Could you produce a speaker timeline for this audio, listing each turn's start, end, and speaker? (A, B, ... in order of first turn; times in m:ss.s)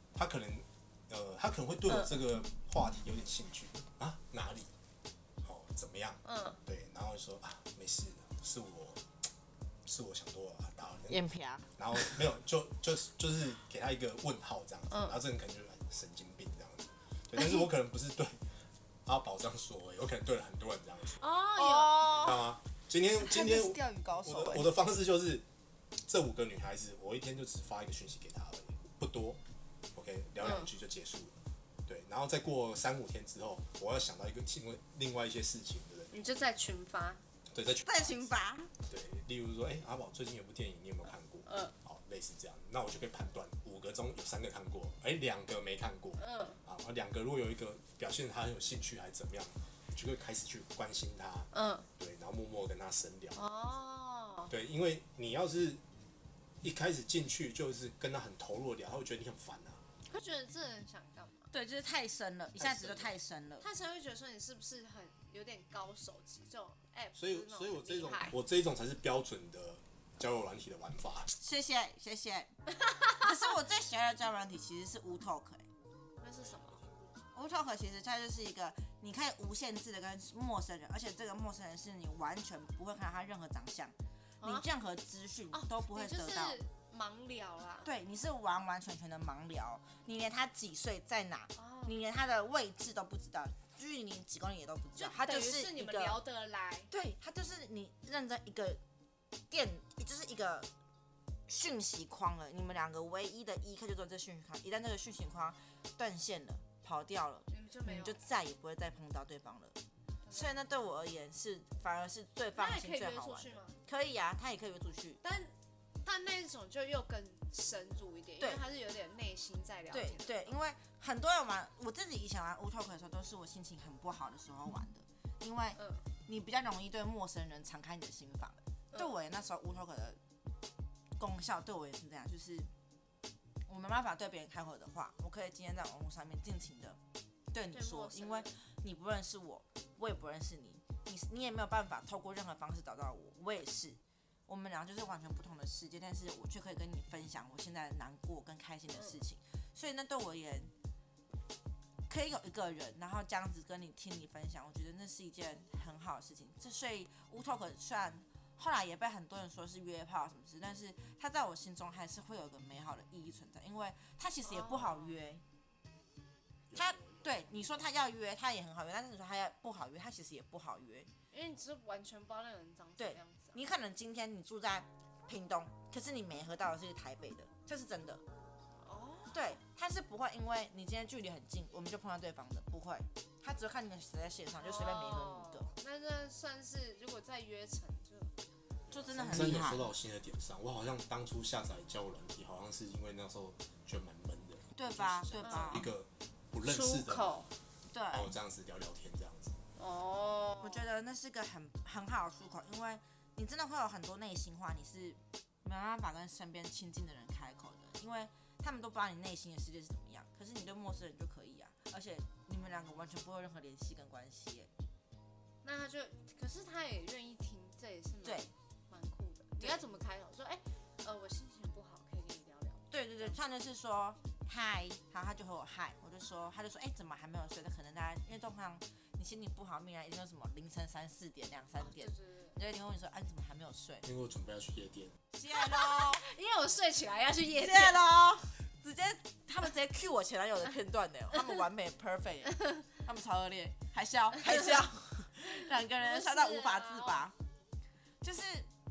0:00.2-0:04.7 A
0:05.4-0:09.0 A
0:06.2-0:06.6 B
0:09.9-0:18.4 A
0:11.1-0:12.0 C
0:14.9-0:15.2 B
0:19.1-0:21.3 A
0:21.2-0:22.2 B
0:21.6-0:22.4 C
0:22.1-0:25.4 A
0:23.2-0:24.7 C
0:26.1-0:29.4 A
0:30.0-0:31.4 A
0:30.4-0:30.7 B
0:31.9-0:36.4 A
0:36.1-0:37.2 B
0:37.5-0:38.3 A
0:37.8-0:38.7 C
0:38.9-0:53.4 A
0:41.5-0:41.7 B
0:46.2-0:46.6 B
0:51.5-0:51.9 B
0:53.4-0:54.5 B
0:54.5-0:55.8 A
0:56.6-0:59.8 A
1:00.1-1:01.5 B
1:01.5-1:03.7 C
1:02.6-1:03.1 A
1:03.6-1:08.4 B
1:07.2-1:11.3 A
1:11.4-1:12.5 C
1:13.0-1:15.6 C
1:16.2-1:16.8 B
1:16.4-1:17.1 A
1:17.3-1:26.6 C
1:24.4-1:24.7 B
1:25.5-1:27.9 B
1:27.8-1:36.2 C
1:31.6-1:32.0 B
1:35.0-1:36.9 B
1:36.9-1:38.8 C
1:39.5-1:40.7 C
1:41.5-1:49.8 C
1:47.5-1:48.2 B
1:50.2-1:50.6 B
1:50.3-1:55.2 C
1:52.6-1:53.8 B
1:55.2-1:55.5 B
1:56.0-2:00.6 B
1:59.9-2:10.2 C
2:05.8-2:06.0 B
2:11.2-2:12.7 C
2:13.7-2:17.0 C
2:17.5-2:30.7 C
2:17.7-2:18.6 B
2:28.9-2:29.2 B
2:32.1-2:45.4 C
2:44.4-2:45.2 B
2:46.7-2:47.5 A
2:46.8-2:51.1 C
2:51.3-2:53.6 B
2:53.0-2:58.2 C
2:58.8-2:59.6 B
2:59.3-3:05.7 C
3:04.6-3:08.3 B
3:08.9-3:17.5 A
3:08.9-3:09.9 C
3:14.8-3:15.9 C
3:15.4-3:15.9 B
3:16.6-3:17.5 B
3:17.9-3:18.3 C
3:18.1-3:19.6 A
3:19.8-3:20.9 B
3:20.6-3:34.7 C
3:35.6-3:43.4 B
3:38.2-3:38.5 C
3:39.6-3:39.8 C
3:42.9-3:54.1 C
3:51.8-3:52.6 B
3:54.0-3:55.2 A
3:55.3-3:56.2 C
3:55.5-3:58.0 B
3:57.6-4:07.3 C
4:04.4-4:04.7 B
4:06.0-4:07.3 B
4:08.2-4:08.7 C